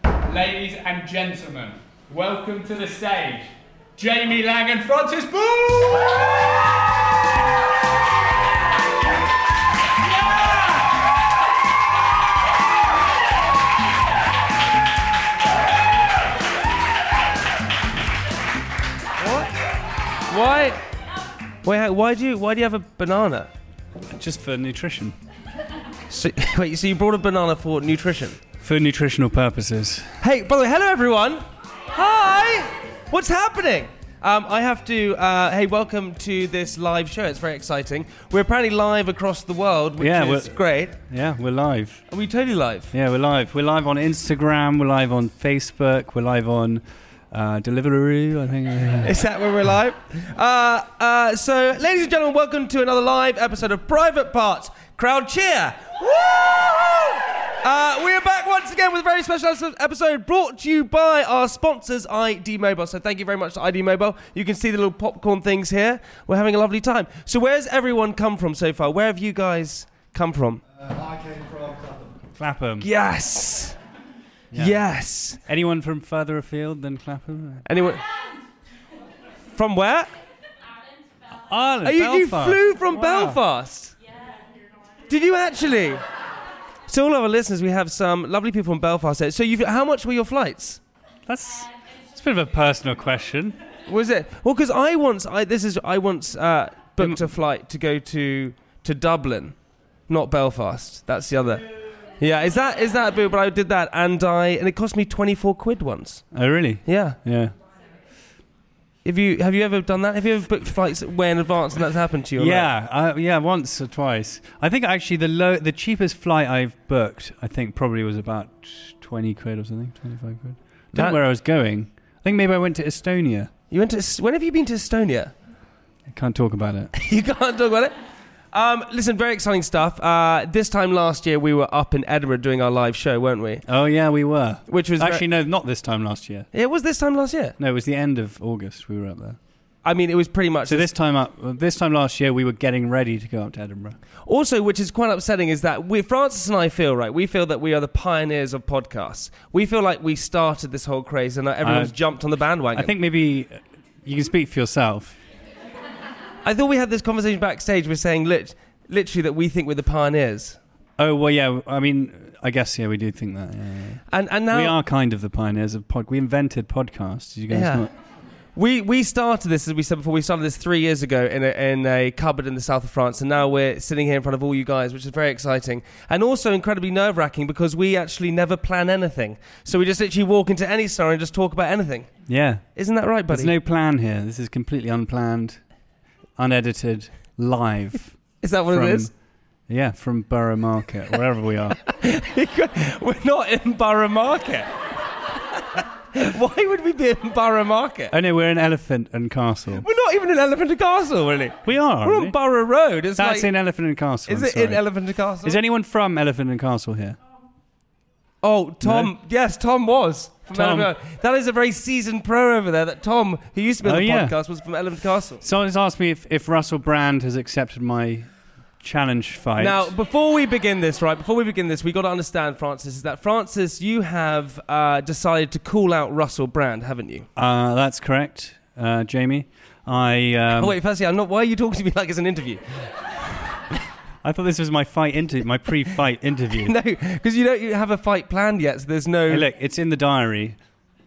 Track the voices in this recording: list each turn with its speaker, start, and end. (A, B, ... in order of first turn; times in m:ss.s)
0:00.2-0:06.5 A
0:10.0-0:10.9 A
0:19.2-0:19.5 B
0:20.3-0:20.8 B
0:21.6-0:23.5 B
0:24.1-0:25.2 C
0:26.1-0:28.4 B
0:28.6-0:30.2 C
0:30.2-0:41.0 B
0:40.0-0:42.0 C
0:42.1-0:42.9 B
0:42.9-0:49.2 C
0:49.0-1:10.6 B
1:12.4-1:12.9 C
1:12.8-1:13.8 B
1:14.5-1:14.9 C
1:14.6-1:15.4 B
1:15.4-1:17.6 C
1:17.6-1:18.0 B
1:19.5-1:20.1 B
1:21.3-1:23.4 C
1:21.8-1:23.9 B
1:25.0-1:26.0 B
1:26.9-1:30.8 B
1:31.3-1:33.6 C
1:33.9-1:39.6 B
1:40.1-1:41.7 B
1:42.2-1:46.2 B
1:46.3-1:47.5 C
1:46.8-1:47.2 B
1:49.0-1:52.7 B
1:52.4-2:03.5 C
2:01.0-2:01.2 B
2:03.7-2:05.3 B
2:06.1-2:06.9 C
2:06.9-2:07.9 B
2:08.5-2:13.6 B
2:13.7-2:16.5 C
2:14.7-2:15.2 B
2:16.5-2:17.6 B
2:17.6-2:19.4 C
2:19.8-2:20.9 B
2:20.7-2:24.0 C
2:24.3-2:32.9 B
2:31.6-2:32.0 C
2:32.7-2:35.2 C
2:36.4-2:40.6 B
2:41.0-2:47.9 C
2:44.1-2:44.8 B
2:47.5-2:47.9 B
2:48.6-3:02.1 B
3:02.3-3:02.6 C
3:02.8-3:03.5 B
3:03.3-3:05.6 C
3:06.4-3:08.2 C
3:08.4-3:09.1 B
3:08.7-3:09.1 C
3:09.7-3:11.8 C
3:11.9-3:14.7 B
3:15.5-3:18.1 B
3:18.1-3:19.9 C
3:19.8-3:23.5 B
3:21.6-3:22.4 C
3:23.2-3:24.8 C
3:24.3-3:25.6 B
3:25.4-3:27.2 C
3:28.4-3:35.4 B
3:28.8-3:29.1 C
3:30.5-3:30.9 C
3:33.8-3:34.4 C
3:35.4-3:39.9 C
3:39.6-3:47.3 B
3:47.4-3:50.8 C
3:50.6-3:52.9 B
3:54.2-3:56.8 C
3:56.6-3:59.5 B
3:59.3-4:00.6 C